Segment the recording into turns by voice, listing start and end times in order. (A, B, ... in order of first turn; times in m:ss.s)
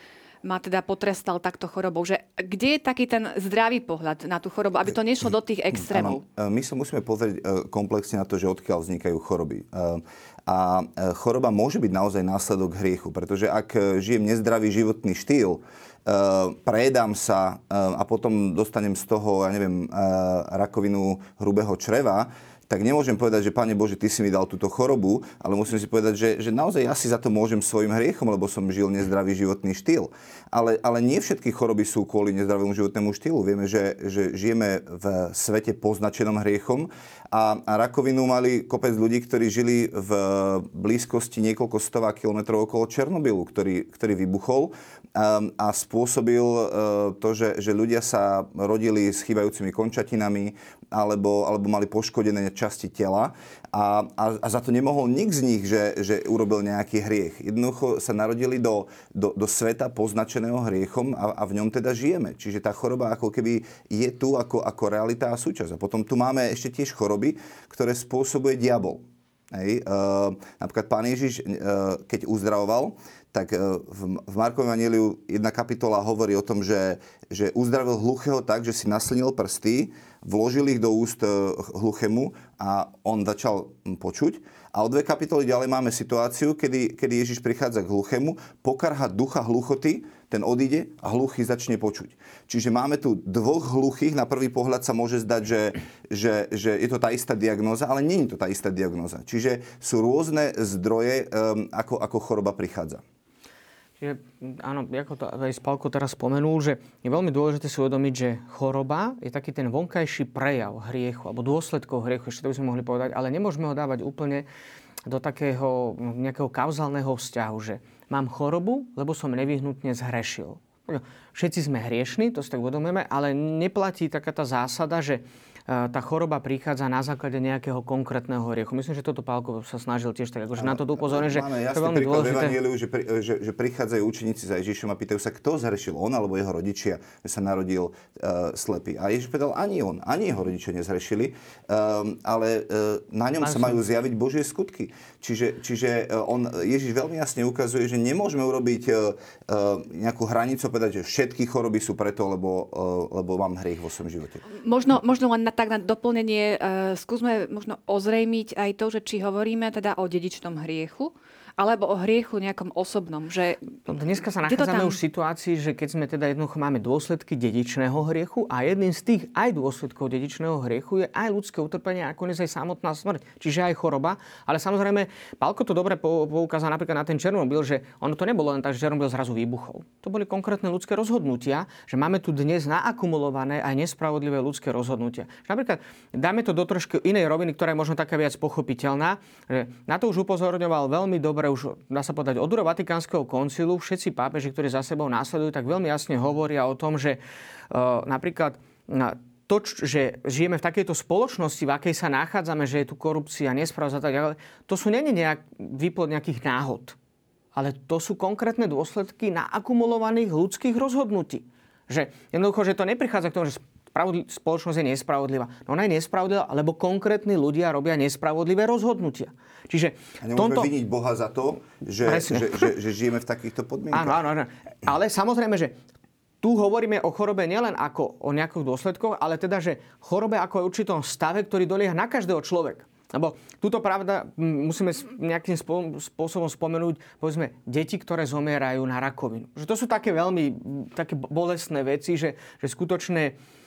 0:00.4-0:06.2 A
0:05.7-1:43.0 B
1:44.0-1:54.4 C
1:55.0-2:12.6 C
2:10.6-2:34.4 B
2:23.4-2:23.8 C
2:34.6-2:43.8 A
2:43.9-3:27.0 C
2:44.4-2:45.0 A
3:27.5-3:40.7 C
3:40.2-3:44.2 B
3:42.0-3:42.7 C
3:43.9-3:45.8 C
3:46.4-4:03.3 C